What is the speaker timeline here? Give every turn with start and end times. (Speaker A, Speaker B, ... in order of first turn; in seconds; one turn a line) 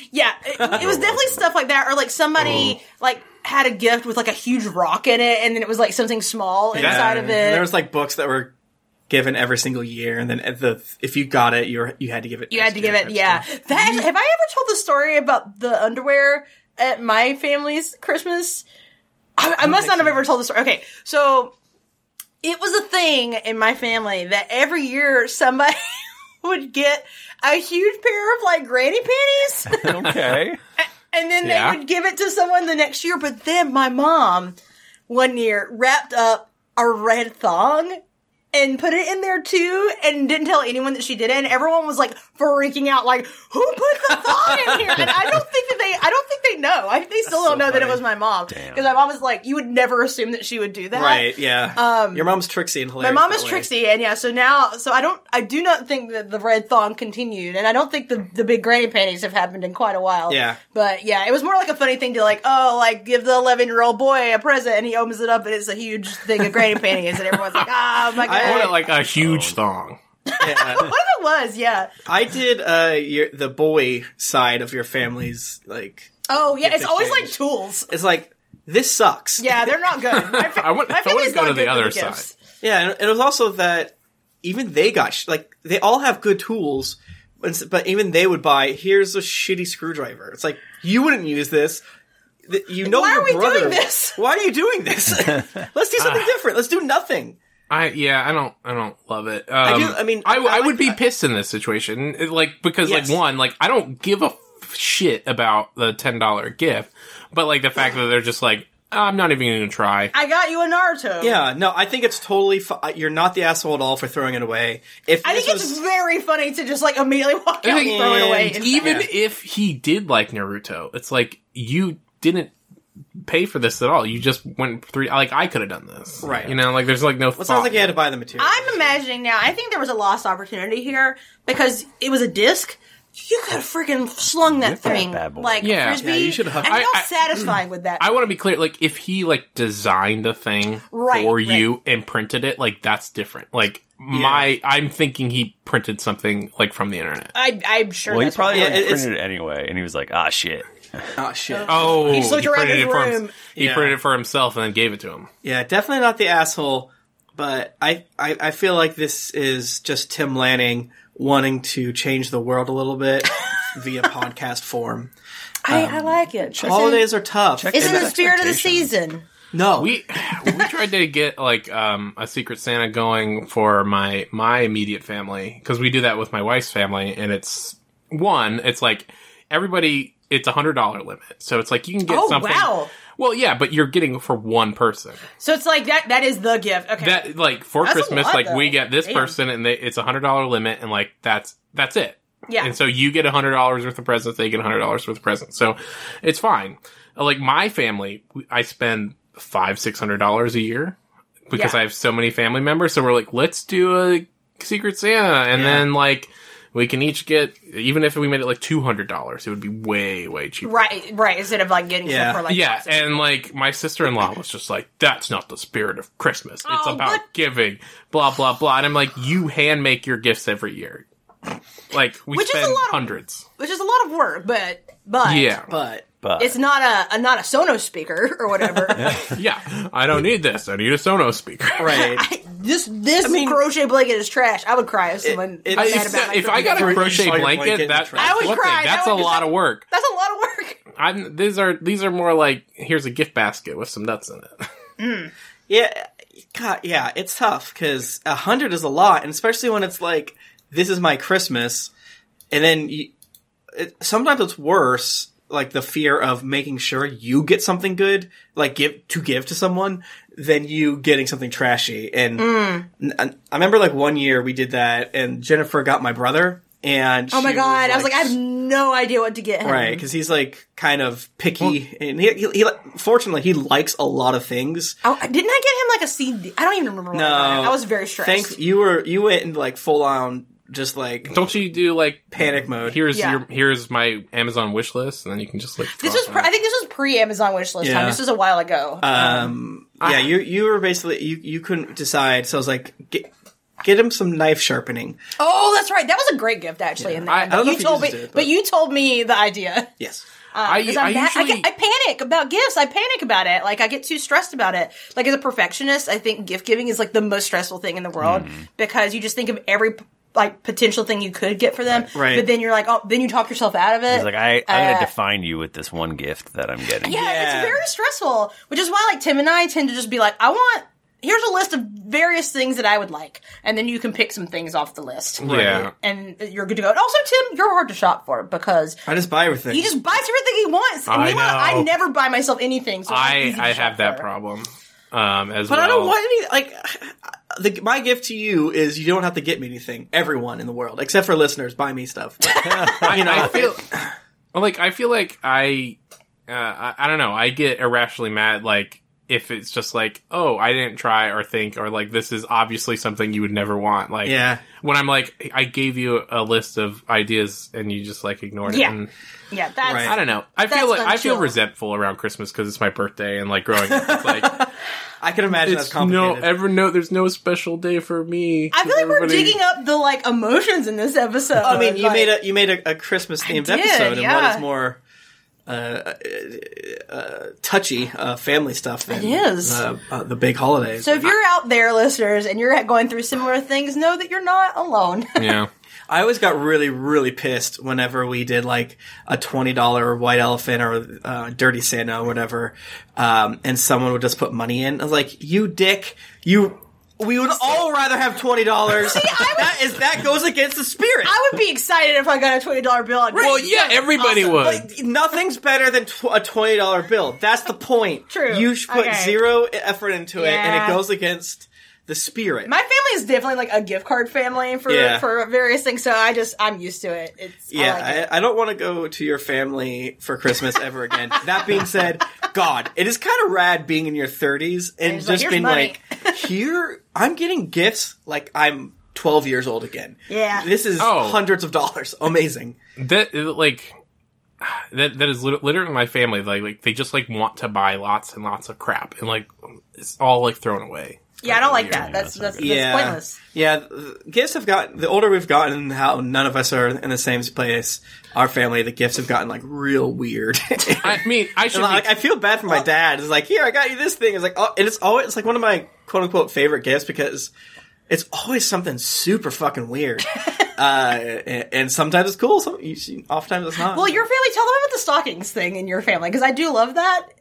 Speaker A: 0.1-7.7
Speaker B: 0.6-0.9
Speaker C: 0.7-1.4
Speaker B: 6.7-8.5
Speaker D: 6.7-7.2
Speaker B: 9.1-14.1
Speaker A: 12.5-18.6
Speaker A: 19.4-21.5
Speaker B: 19.6-20.2
Speaker A: 22.4-30.1
Speaker C: 29.7-30.6
Speaker A: 31.1-34.6
Speaker D: 31.4-31.8
Speaker A: 35.1-38.0
Speaker A: 38.5-52.3
Speaker B: 44.5-45.0
Speaker B: 47.4-48.0
Speaker C: 48.5-48.8
Speaker B: 50.9-53.7
Speaker A: 53.0-68.7
Speaker B: 60.3-60.6
Speaker B: 68.2-68.8
Speaker D: 68.2-70.0
Speaker C: 69.2-69.6
Speaker A: 70.3-71.9
Speaker B: 70.4-70.9
Speaker B: 72.0-77.4
Speaker A: 76.3-77.9
Speaker B: 77.9-79.7
Speaker A: 79.4-82.3
Speaker D: 80.2-82.3
Speaker B: 82.6-91.8
Speaker B: 92.5-97.4
Speaker A: 92.8-94.2
Speaker D: 96.0-96.3
Speaker D: 97.7-110.1
Speaker B: 99.6-101.0
Speaker B: 102.8-103.2
Speaker A: 110.1-111.4
Speaker B: 111.2-115.8
Speaker A: 115.2-119.0
Speaker D: 117.6-122.5
Speaker B: 117.7-119.1
Speaker D: 123.2-128.0
Speaker B: 126.2-126.6
Speaker B: 127.4-128.9
Speaker A: 128.4-138.2
Speaker C: 134.4-135.7
Speaker D: 135.6-137.1
Speaker B: 136.0-136.8
Speaker D: 138.0-147.3
Speaker A: 140.9-141.7
Speaker B: 144.1-144.5
Speaker A: 147.3-149.0
Speaker C: 148.1-151.0
Speaker B: 148.5-149.1
Speaker B: 151.2-152.1
Speaker A: 151.5-153.3
Speaker D: 151.7-155.3
Speaker B: 153.6-153.9
Speaker B: 155.4-165.1
Speaker A: 165.6-167.1
Speaker B: 165.7-168.2
Speaker C: 166.5-167.0
Speaker C: 167.5-168.9
Speaker A: 167.7-169.2
Speaker B: 169.5-169.9
Speaker D: 169.8-185.2
Speaker A: 182.1-182.9
Speaker A: 185.4-187.3
Speaker D: 187.0-201.0
Speaker A: 187.8-189.3
Speaker A: 192.5-192.7
Speaker D: 201.5-210.7
Speaker B: 205.5-205.8
Speaker A: 210.6-213.2
Speaker B: 212.0-212.4
Speaker D: 212.5-221.0
Speaker A: 216.6-217.2
Speaker D: 221.9-223.4
Speaker A: 222.3-225.6
Speaker D: 225.2-225.7
Speaker B: 225.7-226.0
Speaker C: 226.2-226.6
Speaker A: 226.4-229.2
Speaker C: 229.0-229.3
Speaker D: 229.2-232.0
Speaker B: 231.8-232.2
Speaker A: 231.8-237.1
Speaker B: 233.2-233.6
Speaker B: 235.2-238.6
Speaker D: 235.7-239.8
Speaker A: 238.1-240.8
Speaker D: 241.0-244.7
Speaker A: 245.0-245.3
Speaker B: 245.7-251.9
Speaker B: 252.5-253.1
Speaker B: 253.7-268.3
Speaker A: 262.4-262.9
Speaker A: 267.3-270.0
Speaker B: 269.6-275.0
Speaker A: 275.0-278.6
Speaker B: 277.1-281.4
Speaker D: 281.3-286.5
Speaker B: 282.3-283.0
Speaker A: 283.1-283.4
Speaker A: 286.0-289.5
Speaker B: 287.8-288.2
Speaker B: 289.0-293.3
Speaker D: 290.0-290.3
Speaker B: 293.8-295.2
Speaker A: 295.4-299.9
Speaker B: 297.0-298.5
Speaker D: 297.3-297.5
Speaker B: 300.0-300.2
Speaker A: 300.5-315.1
Speaker D: 300.6-301.7
Speaker C: 308.2-308.6
Speaker B: 312.1-312.5
Speaker C: 314.1-317.2
Speaker A: 317.0-329.0
Speaker B: 317.1-317.8
Speaker B: 325.4-325.9
Speaker D: 325.4-325.9
Speaker B: 329.1-329.9
Speaker A: 329.7-334.2
Speaker D: 331.1-331.9
Speaker D: 333.1-336.1
Speaker B: 335.7-344.1
Speaker C: 342.7-342.9
Speaker D: 342.9-343.8
Speaker D: 344.5-346.0
Speaker D: 346.5-359.1
Speaker B: 354.2-354.6
Speaker A: 358.7-358.9
Speaker A: 359.5-361.5
Speaker B: 359.8-360.2
Speaker D: 360.0-364.6
Speaker B: 363.9-364.7
Speaker B: 365.2-366.5
Speaker D: 365.6-369.6
Speaker A: 368.7-372.3
Speaker B: 371.6-375.0
Speaker A: 373.4-374.6
Speaker B: 375.6-381.3
Speaker A: 379.1-379.8
Speaker A: 381.0-385.6
Speaker D: 385.4-385.7
Speaker B: 386.1-401.4
Speaker A: 398.9-399.8
Speaker A: 401.2-404.7
Speaker D: 403.4-404.9
Speaker B: 404.5-412.7
Speaker A: 408.3-409.4
Speaker A: 410.4-411.0
Speaker A: 412.6-418.2
Speaker B: 414.9-415.2
Speaker B: 417.7-432.8
Speaker A: 425.0-426.4
Speaker A: 430.3-430.7
Speaker D: 431.0-431.4
Speaker D: 433.0-433.9
Speaker D: 434.6-442.1
Speaker A: 441.4-443.4
Speaker C: 441.4-442.9
Speaker B: 442.6-457.5
Speaker D: 451.0-452.1
Speaker B: 458.1-464.2
Speaker A: 463.8-467.3